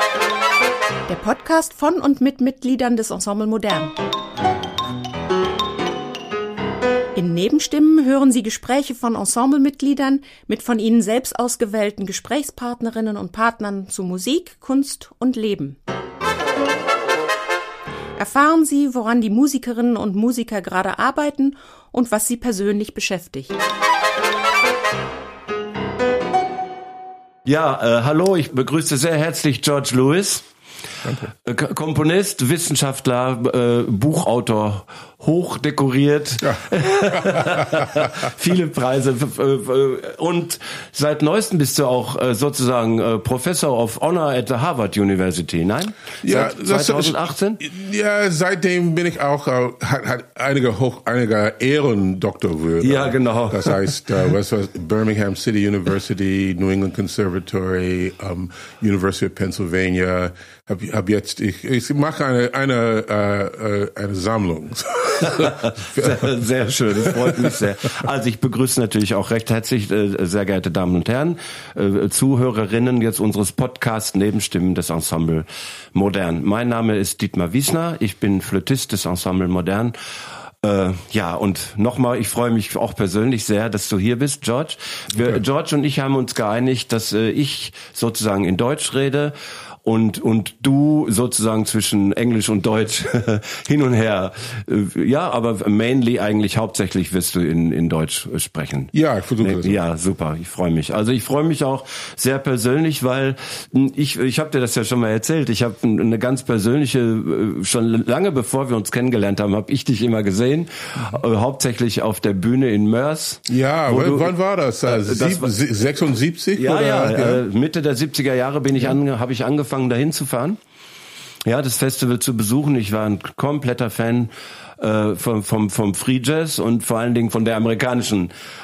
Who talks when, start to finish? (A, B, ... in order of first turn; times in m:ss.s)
0:01.1-0:03.9 A
0:07.2-0:15.8 A
0:18.2-0:23.6 A
0:27.5-0:30.4 B
0:31.0-0:31.3 C
0:31.4-0:47.6 B
0:36.4-0:38.3 C
0:46.2-1:06.3 C
0:52.8-0:54.0 B
1:05.2-1:20.0 B
1:07.0-1:07.6 C
1:20.6-1:54.3 B
1:25.1-1:25.4 C
1:38.9-1:39.8 C
1:53.5-1:57.4 C
1:54.8-1:55.5 B
1:56.6-2:00.6 B
2:01.4-2:08.3 B